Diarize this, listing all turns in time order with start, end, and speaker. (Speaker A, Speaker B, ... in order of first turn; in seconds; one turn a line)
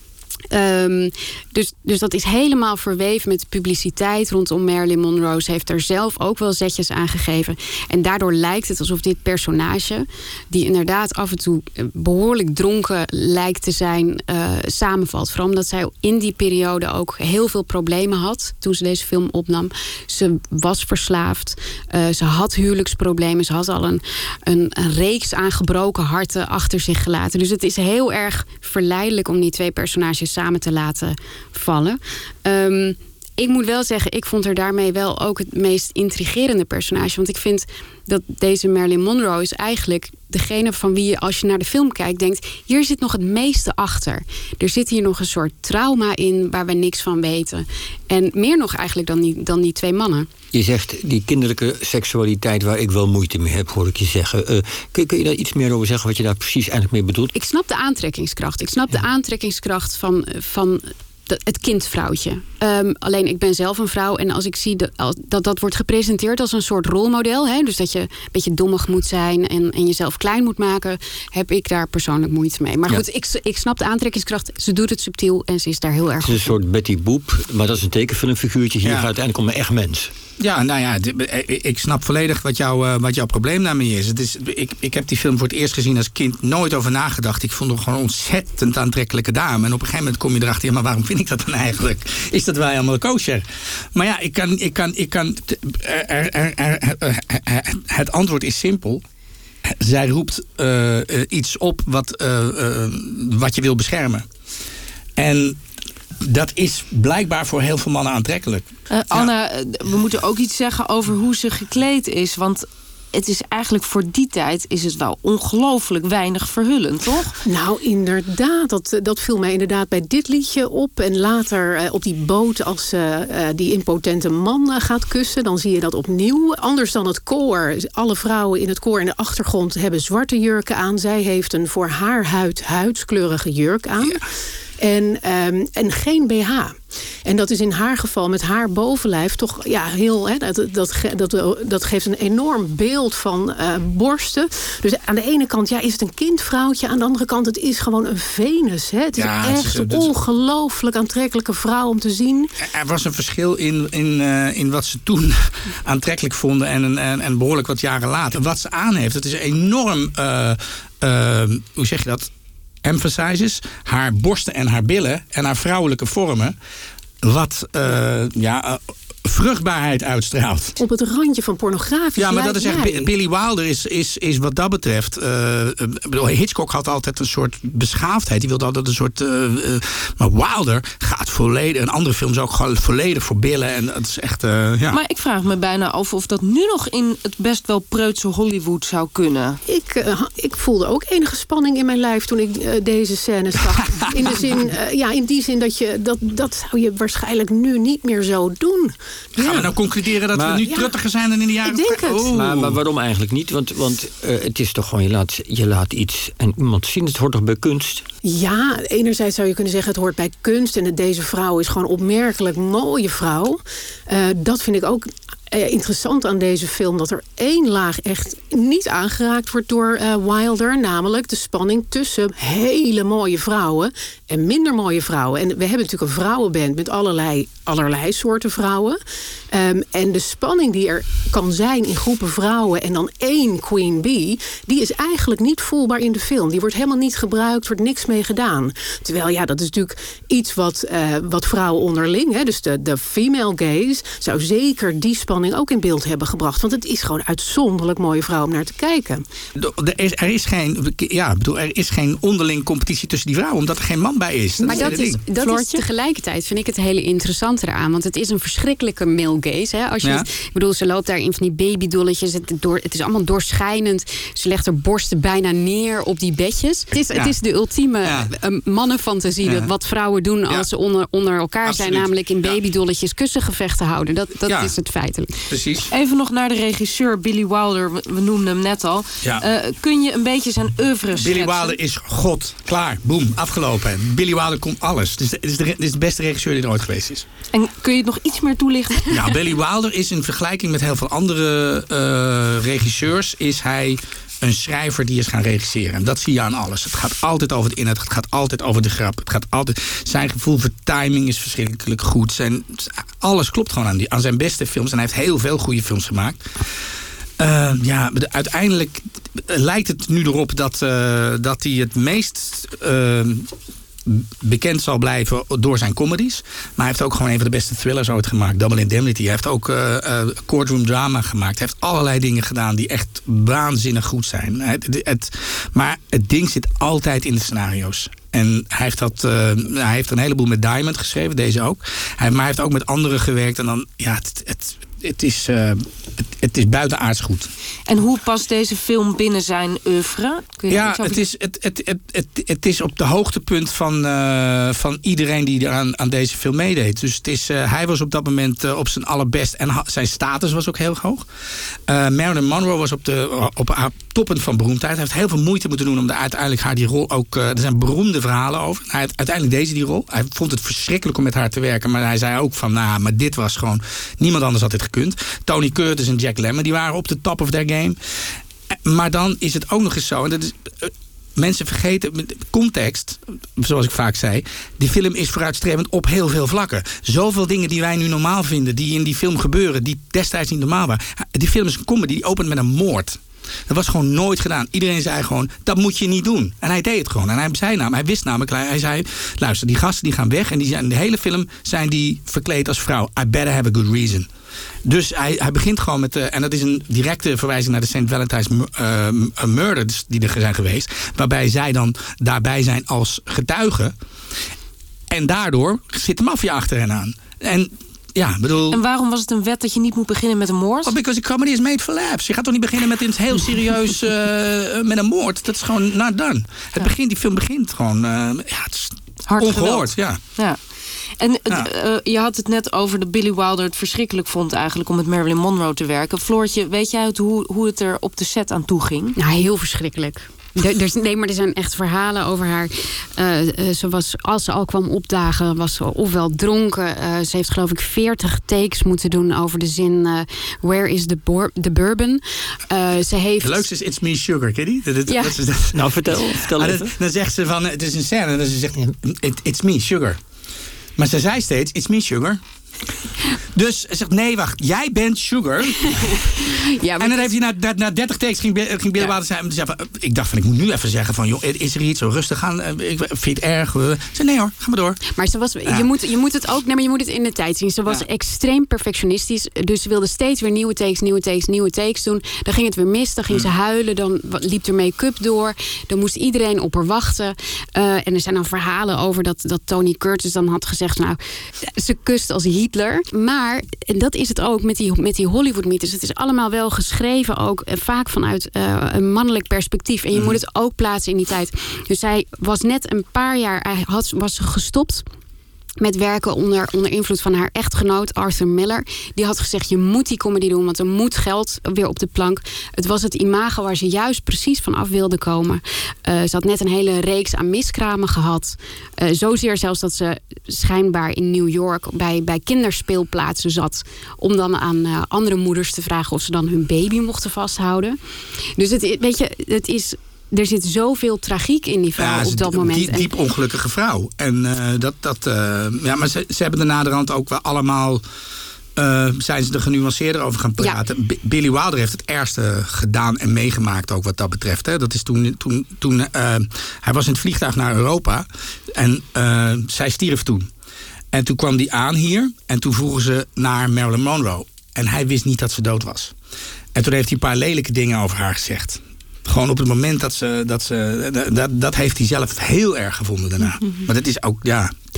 Speaker A: 0.5-50.3
Speaker B: 50.5-57.3
Speaker A: 57.3-76.5
Speaker B: 76.2-80.1
Speaker C: 78.8-79.1
Speaker C: 80.4-93.4
Speaker C: 93.9-99.0
Speaker C: 99.7-104.3
Speaker C: 105.2-105.6
Speaker C: 106.2-109.3
Speaker D: 108.9-117.3
Speaker E: 117.4-134.2
Speaker E: 134.8-152.5
Speaker C: 149.2-150.1
Speaker C: 152.6-162.3
Speaker C: 162.8-166.5
Speaker C: 167.2-170.8
Speaker E: 170.8-173.1
Speaker C: 172.2-185.0
Speaker D: 184.9-189.6
Speaker E: 189.7-199.7
Speaker C: 199.4-202.8
Speaker E: 200.6-200.9
Speaker E: 201.6-202.3
Speaker B: 202.3-208.0
Speaker E: 208.2-229.0
Speaker E: 229.5-249.2
Speaker C: 249.6-255.2
Speaker D: 254.6-255.8
Speaker A: 254.7-275.3
Speaker C: 268.0-268.3
Speaker C: 269.4-269.7
Speaker C: 271.6-272.6
Speaker C: 275.5-275.9
Speaker D: 275.9-281.8
Speaker C: 281.1-287.2
Speaker D: 287.5-289.3
Speaker C: 289.1-306.5
Speaker C: 307.4-313.5
Speaker C: 314.1-337.5
Speaker D: 337.9-341.2
Speaker C: 340.7-351.2
Speaker C: 351.9-368.0
Speaker C: 368.8-394.3
Speaker C: 394.8-403.9
Speaker C: 405.1-408.8
Speaker D: 408.7-410.9
Speaker C: 410.8-420.2
Speaker D: 419.2-420.6
Speaker D: 421.2-429.1
Speaker A: 429.1-443.6
Speaker C: 443.4-450.2
Speaker A: 445.1-445.3
Speaker B: 445.7-446.9
Speaker C: 451.0-452.4
Speaker C: 453.5-456.4
Speaker A: 455.9-457.3
Speaker C: 457.0-465.0
Speaker A: 465.1-495.0
Speaker A: 495.8-518.0
Speaker A: 518.6-523.1
Speaker C: 522.0-528.0
Speaker C: 528.8-540.5
Speaker C: 541.1-546.1
Speaker C: 546.7-554.7